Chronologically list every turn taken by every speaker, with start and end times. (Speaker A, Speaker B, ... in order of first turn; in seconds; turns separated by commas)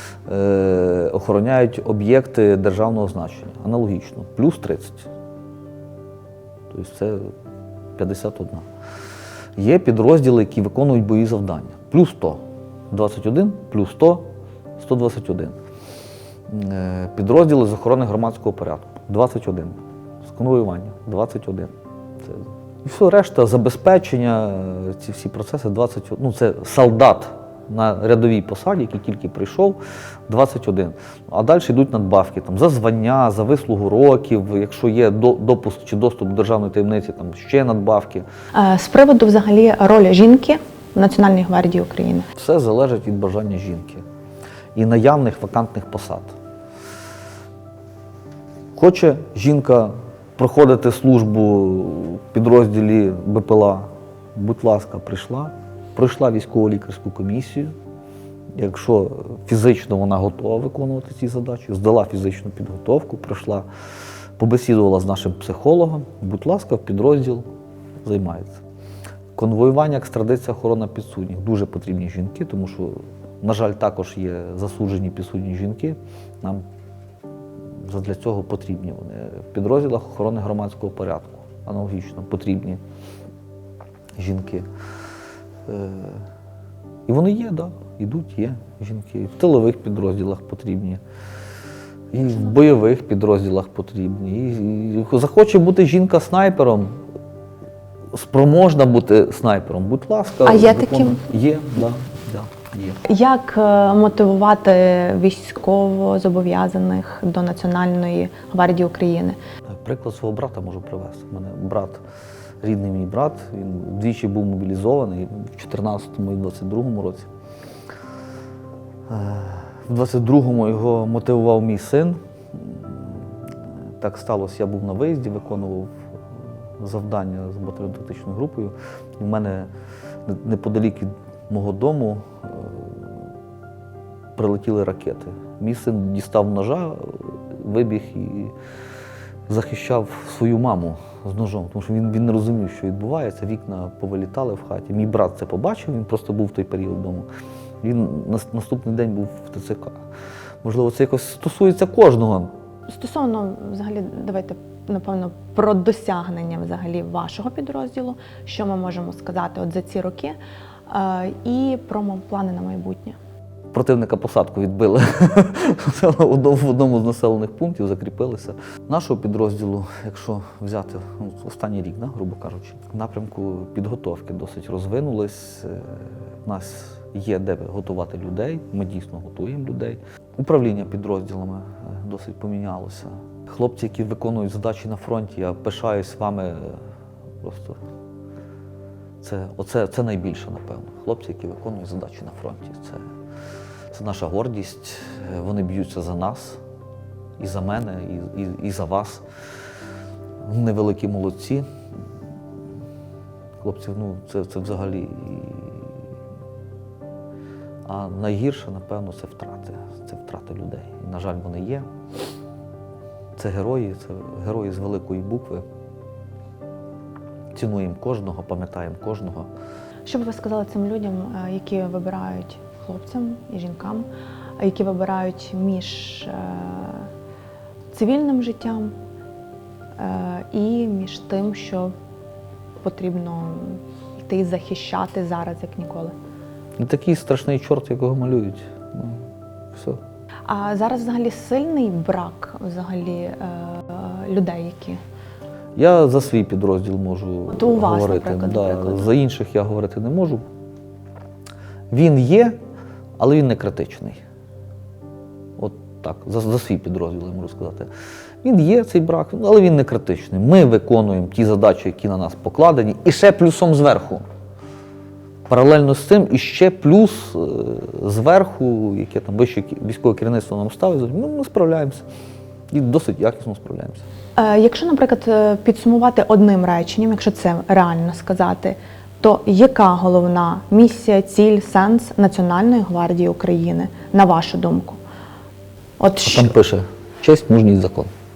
Speaker A: 0.3-5.1, Speaker A: 6.7-7.3, Speaker A: 8.0-8.7, Speaker A: 9.6-15.6, Speaker A: 16.5-21.7, Speaker A: 22.2-38.2, Speaker B: 38.5-42.3, Speaker A: 42.4-44.0, Speaker A: 44.7-46.3, Speaker A: 48.7-57.7, Speaker A: 58.5-63.6, Speaker A: 64.4-67.4, Speaker A: 68.0-68.6, Speaker A: 69.3-76.6, Speaker A: 77.8-82.8, Speaker A: 84.2-84.7, Speaker A: 85.7-86.2, Speaker A: 87.1-91.0, Speaker A: 92.1-96.9, Speaker A: 98.1-103.0, Speaker B: 100.4-101.2, Speaker B: 103.0-109.4, Speaker A: 109.7-112.0, Speaker A: 112.6-117.3, Speaker A: 119.1-123.2, Speaker A: 124.0-125.9, Speaker A: 126.8-129.7, Speaker A: 130.2-133.1, Speaker A: 134.3-138.5, Speaker A: 139.5-147.2, Speaker A: 147.8-150.0, Speaker A: 150.6-152.5, Speaker B: 152.9-160.4, Speaker B: 160.9-163.2, Speaker A: 163.7-186.8, Speaker A: 187.4-187.8, Speaker A: 189.2-193.1, Speaker A: 193.9-196.6, Speaker A: 197.4-199.2, Speaker A: 200.4-201.7, Speaker A: 203.6-205.9, Speaker A: 207.8-211.9, Speaker A: 213.3-215.6, Speaker A: 217.5-219.5, Speaker B: 220.0-224.1, Speaker B: 224.6-227.1, Speaker B: 227.9-228.9, Speaker B: 230.0-231.9, Speaker B: 232.8-236.1, Speaker A: 236.8-239.2, Speaker A: 239.7-240.0, Speaker B: 240.5-245.0, Speaker A: 245.8-250.4, Speaker B: 247.5-249.1, Speaker A: 251.9-252.6, Speaker A: 253.2-254.2, Speaker A: 255.6-257.9, Speaker A: 258.4-264.2, Speaker A: 265.5-272.0, Speaker A: 272.7-274.0, Speaker B: 274.4-285.0, Speaker B: 286.0-286.5, Speaker A: 286.2-288.1